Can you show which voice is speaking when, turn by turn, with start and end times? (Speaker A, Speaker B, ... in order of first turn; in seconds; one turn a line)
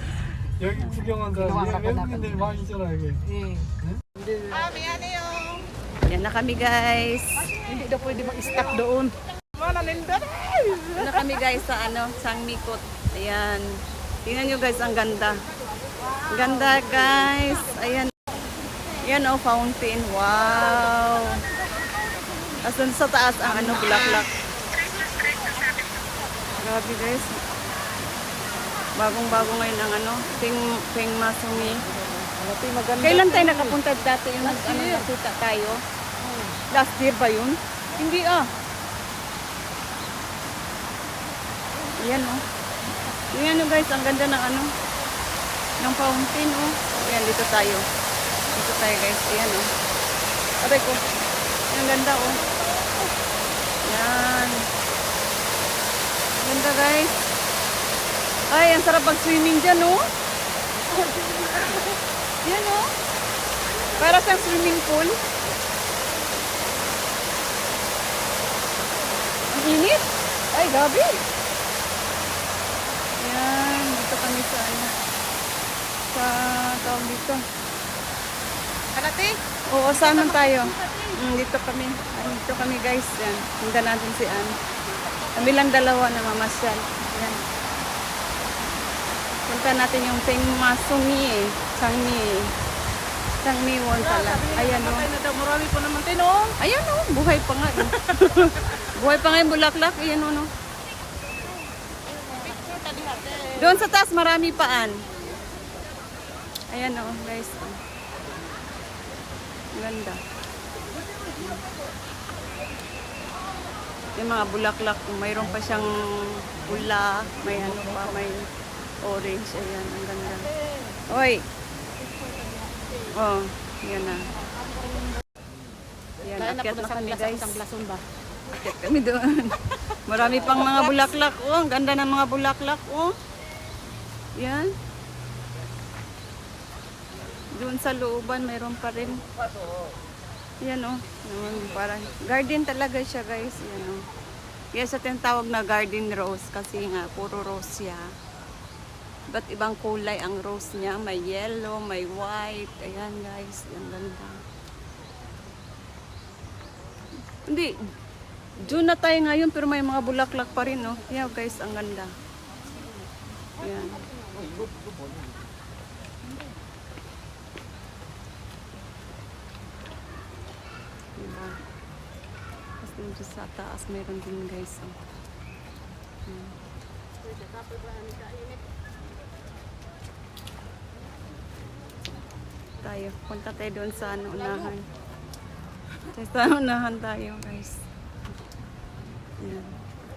Speaker A: 0.6-3.2
Speaker B: 1.4-2.6
Speaker B: 3.2-5.6
Speaker C: 6.1-7.5
Speaker B: 7.5-11.2
Speaker C: 11.0-13.7
Speaker C: 14.2-15.5
Speaker B: 16.0-17.3
Speaker C: 16.3-18.1
Speaker C: 19.0-21.5
Speaker C: 22.6-24.3
Speaker B: 23.4-24.2
Speaker C: 26.6-27.4
Speaker C: 29.0-31.8
Speaker B: 32.1-33.8
Speaker C: 33.0-35.8
Speaker B: 34.4-35.1
Speaker B: 36.2-36.6
Speaker C: 36.7-38.5
Speaker C: 42.0-42.4
Speaker C: 43.3-44.7
Speaker C: 45.8-47.9
Speaker C: 48.5-49.7
Speaker C: 50.6-51.0
Speaker C: 51.7-52.4
Speaker C: 53.9-54.6
Speaker C: 56.4-57.2
Speaker C: 58.5-60.0
Speaker B: 60.9-61.9
Speaker C: 62.4-62.9
Speaker C: 64.0-65.2
Speaker C: 69.5-70.1
Speaker B: 70.5-71.2
Speaker C: 73.2-74.9
Speaker C: 76.1-77.4
Speaker B: 79.0-79.4
Speaker C: 79.7-84.5
Speaker B: 79.9-81.2
Speaker C: 85.3-87.4
Speaker C: 89.5-92.5
Speaker C: 93.4-95.1
Speaker B: 94.0-96.6
Speaker C: 96.6-100.5
Speaker B: 102.3-103.8
Speaker C: 103.6-105.0
Speaker C: 106.7-107.7
Speaker C: 109.7-110.2
Speaker C: 111.3-111.7
Speaker C: 114.2-118.5
Speaker C: 119.0-120.5
Speaker C: 121.1-121.4
Speaker C: 123.1-124.3
Speaker C: 126.2-127.5
Speaker B: 126.3-128.0
Speaker C: 128.5-133.1
Speaker C: 134.4-134.7
Speaker C: 137.5-139.2
Speaker C: 140.6-144.1
Speaker C: 144.7-148.1
Speaker C: 149.3-154.3
Speaker C: 157.5-157.7
Speaker C: 158.6-162.1
Speaker C: 163.6-164.1
Speaker B: 163.7-164.7
Speaker C: 171.2-171.6
Speaker C: 172.8-174.9
Speaker C: 176.3-176.6
Speaker B: 177.2-178.6
Speaker C: 182.8-184.8
Speaker C: 186.1-187.8
Speaker C: 189.4-189.8